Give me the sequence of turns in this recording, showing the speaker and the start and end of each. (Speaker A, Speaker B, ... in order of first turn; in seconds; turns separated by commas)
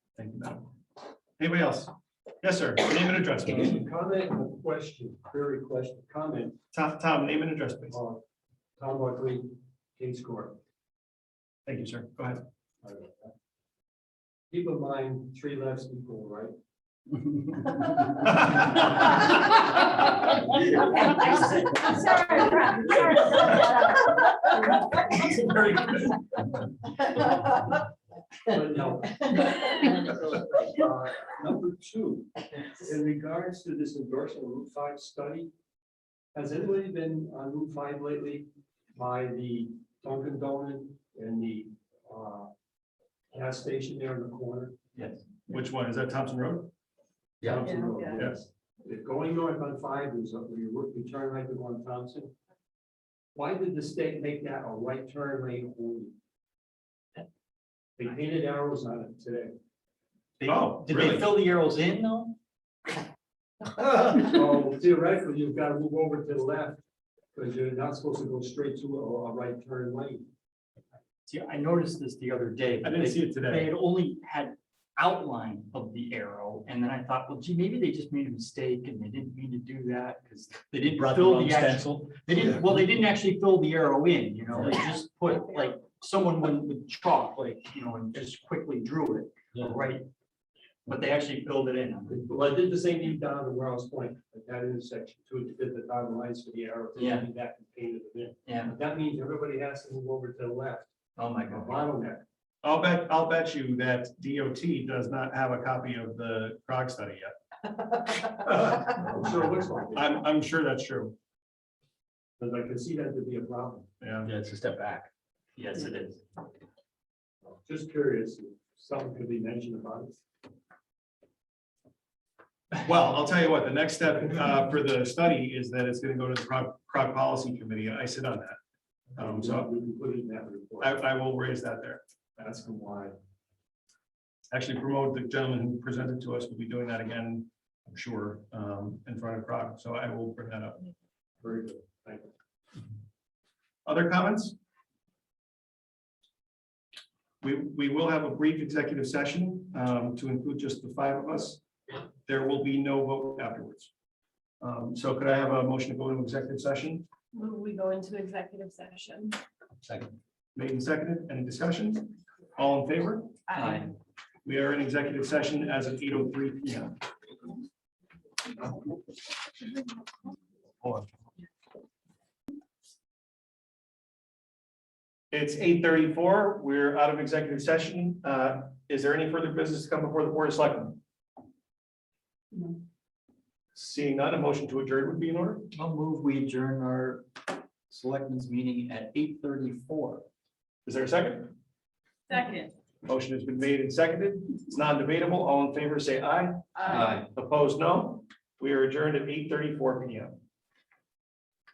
Speaker A: 0.2-0.7, Speaker A: 1.4-1.9, Speaker A: 2.4-3.8, Speaker B: 3.5-6.6, Speaker A: 6.7-8.0, Speaker B: 7.9-8.2, Speaker B: 8.8-10.6, Speaker A: 11.7-12.4, Speaker B: 12.8-13.3, Speaker B: 14.5-16.6, Speaker A: 18.2-18.6, Speaker C: 21.3-24.2, Speaker B: 25.2-25.9, Speaker B: 28.5-35.5, Speaker B: 36.3-42.5, Speaker B: 43.3-44.8, Speaker A: 45.5-46.7, Speaker B: 47.4-52.3, Speaker C: 47.7-48.2, Speaker B: 53.3-56.1, Speaker B: 58.0-59.5, Speaker D: 60.4-62.4, Speaker A: 60.5-61.3, Speaker B: 64.1-66.8, Speaker B: 67.3-70.2, Speaker D: 71.3-90.0, Speaker A: 72.8-73.7, Speaker E: 80.8-83.0, Speaker D: 90.9-92.2, Speaker B: 92.1-100.9, Speaker D: 97.0-97.3, Speaker D: 98.5-98.7, Speaker D: 101.2-101.8, Speaker B: 101.5-102.2, Speaker A: 102.6-107.3, Speaker B: 108.5-110.2, Speaker A: 110.0-111.1, Speaker B: 112.4-113.9, Speaker A: 114.0-114.3, Speaker E: 114.2-115.1, Speaker D: 115.6-116.2, Speaker B: 117.5-120.2, Speaker A: 122.8-128.6, Speaker B: 129.2-131.0, Speaker A: 129.2-129.7, Speaker A: 130.8-132.0, Speaker B: 132.4-133.2, Speaker A: 134.5-140.8, Speaker B: 141.4-142.3, Speaker A: 143.9-144.6, Speaker A: 147.4-151.6, Speaker A: 152.3-153.9, Speaker A: 154.6-157.1, Speaker C: 157.3-159.4, Speaker A: 160.6-163.3, Speaker C: 163.5-163.9, Speaker D: 163.6-163.9, Speaker A: 164.4-166.9, Speaker A: 175.3-181.0, Speaker C: 182.5-182.8, Speaker A: 183.8-185.7, Speaker D: 185.7-190.2, Speaker A: 190.9-191.5, Speaker C: 192.3-192.7, Speaker A: 193.1-200.4, Speaker C: 196.8-197.1, Speaker D: 196.9-197.2